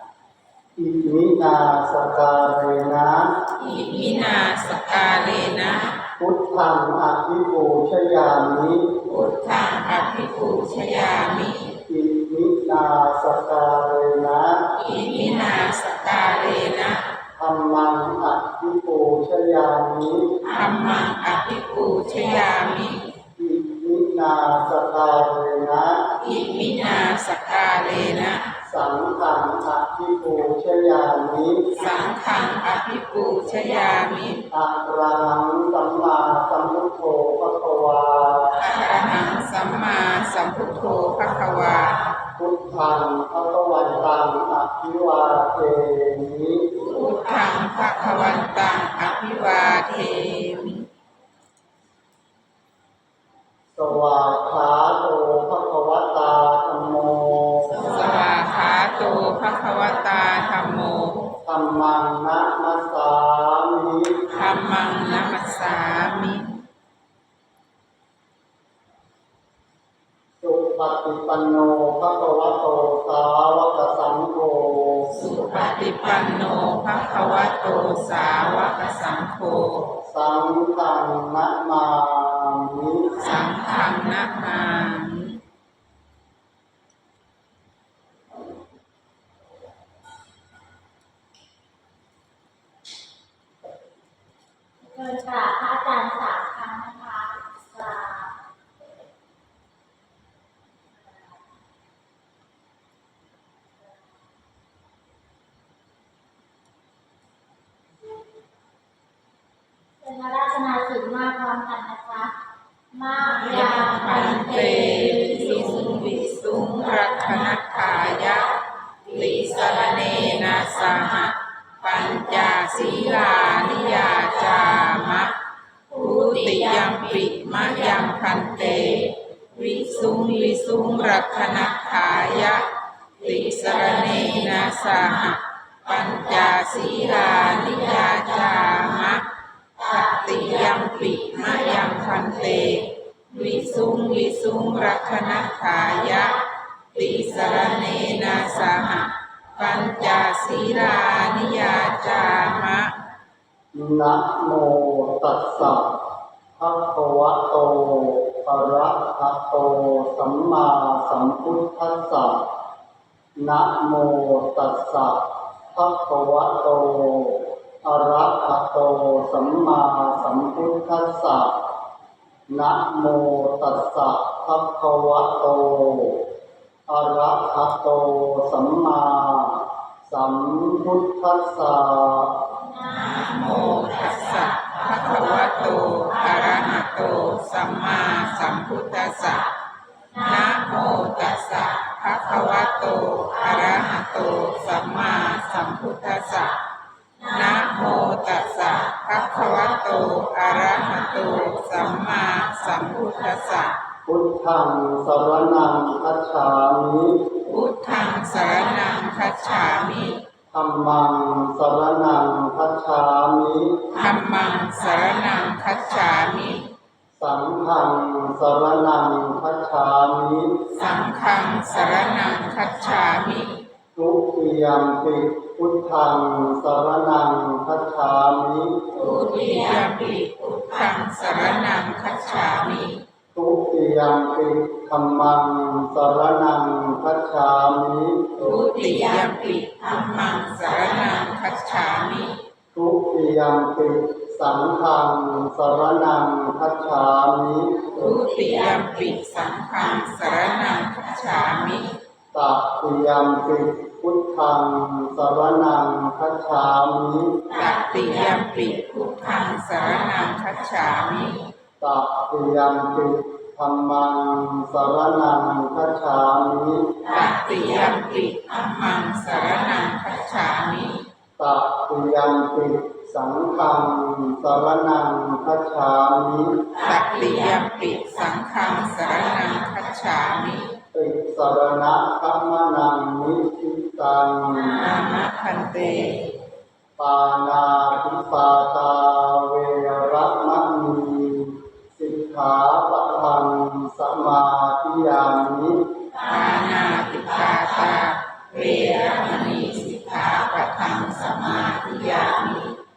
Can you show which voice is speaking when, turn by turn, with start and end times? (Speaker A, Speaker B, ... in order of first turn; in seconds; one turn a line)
Speaker A: 0.8-3.4
Speaker B: 3.6-6.0
Speaker A: 6.2-9.0
Speaker B: 9.0-11.8
Speaker A: 11.8-14.7
Speaker B: 14.8-17.1
Speaker A: 17.4-20.4
Speaker B: 20.4-23.2
Speaker A: 23.3-26.1
Speaker B: 26.1-28.6
Speaker A: 28.6-31.7
Speaker B: 31.7-34.5
Speaker A: 34.5-38.6
Speaker B: 38.6-42.1
Speaker A: 42.4-46.7
Speaker B: 46.8-50.9
Speaker A: 53.7-58.0
Speaker B: 57.7-61.3
Speaker A: 61.4-64.3
Speaker B: 64.3-66.6
Speaker A: 70.4-75.1
Speaker B: 75.1-79.9
Speaker A: 80.0-83.2
Speaker B: 83.1-85.4
Speaker C: 94.8-98.3
Speaker C: 110.0-112.4
Speaker C: 112.9-113.4
Speaker B: 113.3-153.0
Speaker A: 153.7-162.4
Speaker A: 163.3-171.6
Speaker A: 172.5-176.3
Speaker A: 176.9-182.4
Speaker B: 182.8-189.5
Speaker B: 190.1-196.6
Speaker B: 197.2-203.8
Speaker A: 204.1-207.3
Speaker B: 207.4-210.2
Speaker A: 210.5-213.9
Speaker B: 213.9-216.7
Speaker A: 217.2-220.6
Speaker B: 220.7-223.7
Speaker A: 223.9-228.9
Speaker B: 228.9-233.0
Speaker A: 233.3-238.4
Speaker B: 238.4-242.4
Speaker A: 242.7-247.8
Speaker B: 247.8-252.0
Speaker A: 252.3-257.4
Speaker B: 257.5-261.5
Speaker A: 261.8-267.0
Speaker B: 267.0-271.1
Speaker A: 271.4-276.7
Speaker B: 276.7-280.7
Speaker A: 280.9-284.8
Speaker B: 284.7-286.3
Speaker A: 287.0-295.8
Speaker B: 296.1-302.7